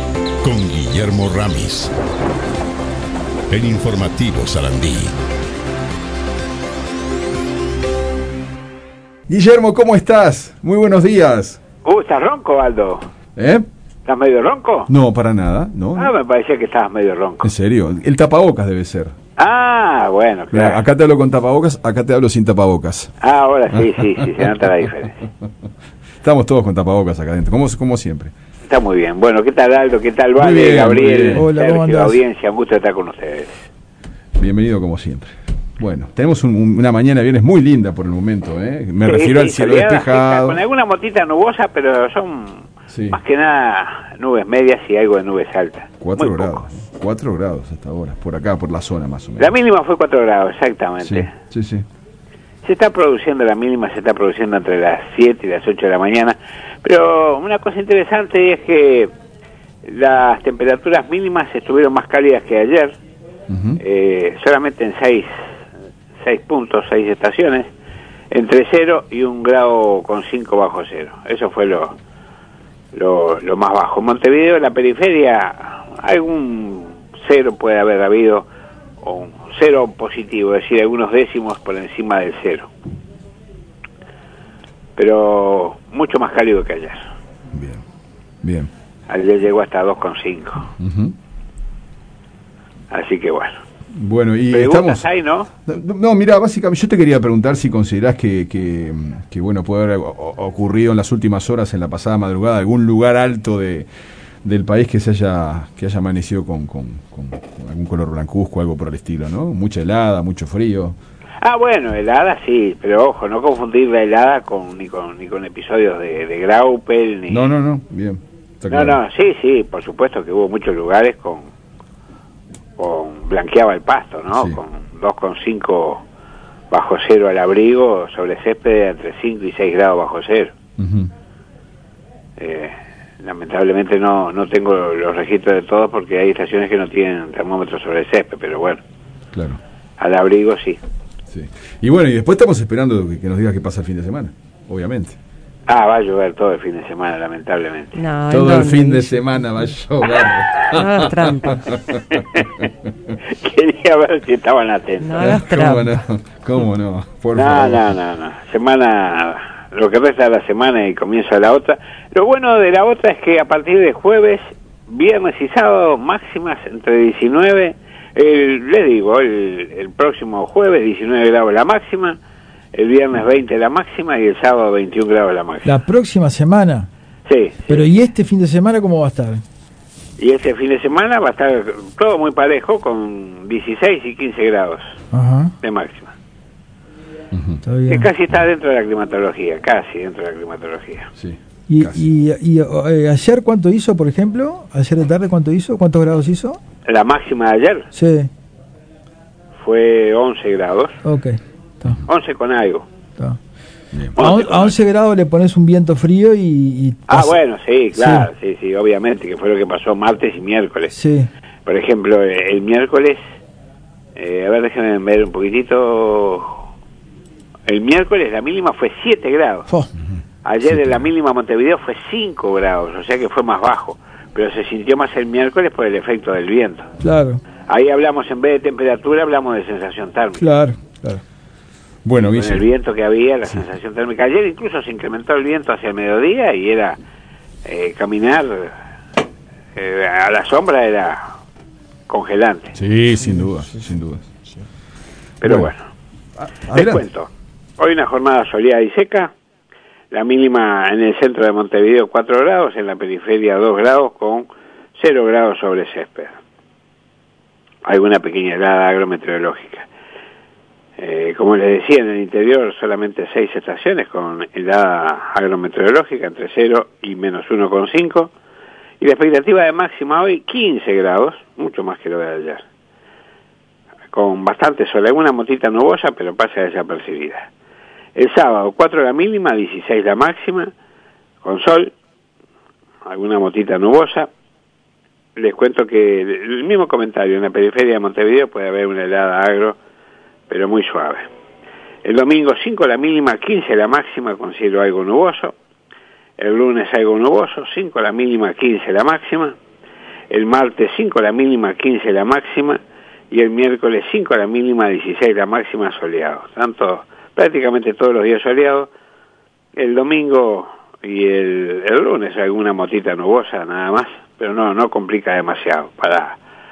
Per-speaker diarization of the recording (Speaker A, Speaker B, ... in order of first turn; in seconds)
Speaker A: 0.4-1.9, 3.5-5.1
Speaker B: 9.3-11.6, 13.3-13.6, 14.9-16.1, 17.4-19.1, 20.5-23.1, 23.7-24.3, 26.2-28.3, 30.4-31.5, 34.4-40.6, 42.9-43.2, 46.0-49.5, 51.0-51.9, 63.5-63.8, 87.5-87.8, 88.4-88.7, 90.8-91.1, 93.9-95.1, 95.7-103.9, 104.4-111.0, 117.3-119.0, 124.3-124.6, 130.8-131.1, 139.3-139.6, 141.3-145.2, 148.3-152.7, 155.2-157.9, 187.3-187.6, 191.2-192.0, 232.0-232.7, 242.8-244.3, 245.4-245.7, 246.4-247.0
Speaker C: 11.8-13.0, 14.1-14.9, 15.9-17.5, 19.4-20.8, 23.2-25.2, 28.6-33.6, 39.0-46.6, 49.4-51.3, 52.6-59.1, 59.8-62.9, 63.8-65.3, 66.2-67.7, 68.3-72.0, 72.9-78.5, 79.0-82.7, 85.0-87.0, 89.1-90.7, 92.9-93.6, 94.5-95.5, 111.4-117.5, 118.7-121.5, 122.8-126.0, 126.7-130.5, 132.4-138.8, 140.0-140.8, 145.7-148.0, 152.1-152.5, 153.2-155.4, 157.3-172.2, 172.7-175.8, 177.2-177.8, 180.2-185.0, 185.6-186.1, 187.9-191.1, 196.8-197.9, 199.6-201.0, 202.0-202.8, 204.2-204.7, 207.1-210.9, 211.7-213.2, 214.1-216.6, 217.7-219.7, 220.4-226.9, 227.7-230.4, 232.2-237.0, 237.6-238.7, 239.8-241.3, 242.1-242.8, 245.4-245.9, 246.7-249.3, 250.1-256.4, 257.8-259.9, 261.0-268.3, 269.0-272.6, 274.1-277.5, 278.1-280.7, 281.4-281.9, 283.1-284.3, 285.4-289.8, 290.5-291.3, 292.0-295.5, 296.4-299.6, 300.3-308.9, 309.8-316.4
Speaker D: 31.3-32.2, 175.6-176.9, 177.7-179.4, 185.1-185.5, 187.6-188.1, 191.7-196.6, 197.9-198.3, 201.0-202.0, 204.1-207.3, 207.9-208.3, 210.9-211.3, 227.0-227.4, 230.4-231.2
Speaker E: 147.9-149.2, 150.7-151.6, 155.0-155.8